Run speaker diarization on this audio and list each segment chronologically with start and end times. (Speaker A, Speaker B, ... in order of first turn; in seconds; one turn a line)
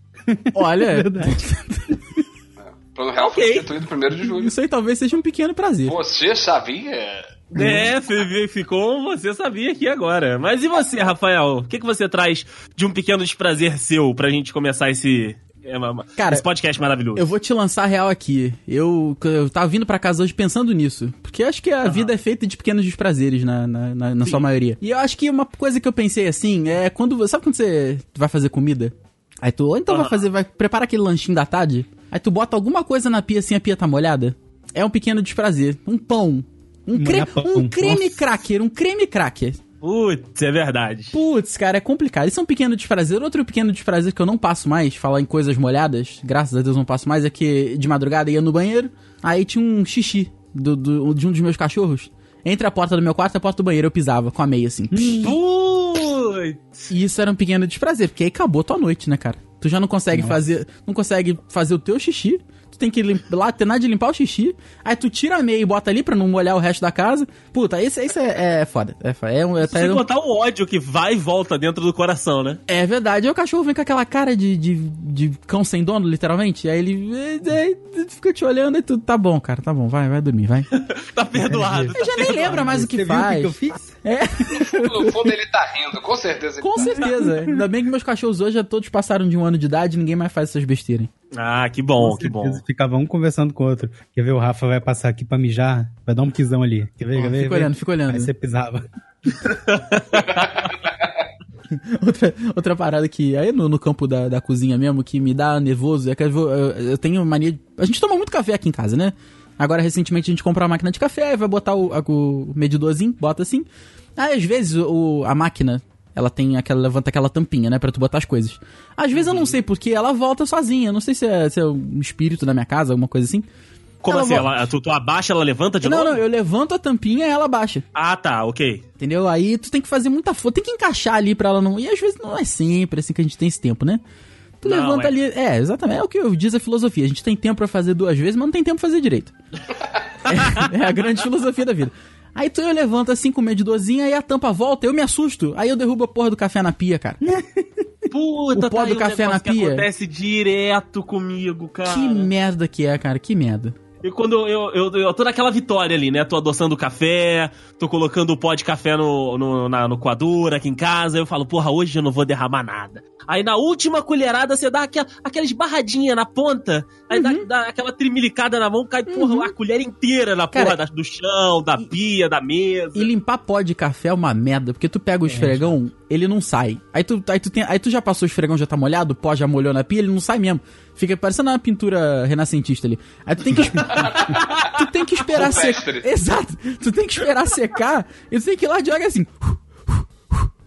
Speaker A: 0.3-1.9
Speaker B: 0.5-2.0
Speaker C: 2.6-4.5
Speaker D: 3.2-3.7
Speaker B: 4.2-6.0
Speaker C: 5.8-7.4
Speaker B: 7.5-7.9
Speaker D: 7.6-17.3
Speaker B: 16.2-16.4
Speaker B: 17.2-39.6
Speaker D: 29.9-30.3
Speaker A: 36.9-38.4
Speaker D: 39.8-41.2
Speaker B: 41.1-55.3
Speaker A: 54.9-55.4
Speaker D: 55.2-56.9
Speaker B: 56.9-70.0
Speaker A: 60.1-60.4
Speaker D: 69.7-72.6
Speaker B: 72.7-80.7
Speaker D: 80.7-82.6
Speaker A: 81.4-84.0
Speaker B: 81.9-85.3
Speaker C: 84.5-87.0
Speaker B: 86.6-91.1
Speaker A: 86.9-87.6
Speaker D: 91.3-92.6
Speaker A: 92.0-98.8
Speaker B: 97.2-98.3
Speaker D: 99.7-100.4
Speaker B: 101.7-113.7
Speaker B: 114.2-123.5
Speaker D: 119.2-119.6
Speaker D: 124.0-126.2
Speaker B: 124.1-124.7
Speaker B: 125.8-127.8
Speaker D: 128.0-128.8
Speaker B: 129.0-134.0
Speaker B: 134.6-139.3
Speaker D: 134.6-135.1
Speaker B: 140.3-147.2
Speaker A: 147.2-147.6
Speaker D: 148.1-152.3
Speaker B: 148.5-149.9
Speaker B: 151.8-153.8
Speaker D: 154.0-173.1
Speaker B: 167.1-167.5
Speaker B: 169.1-169.5
Speaker B: 172.9-190.5
Speaker A: 175.3-175.7
Speaker C: 183.9-184.4
Speaker C: 185.3-186.1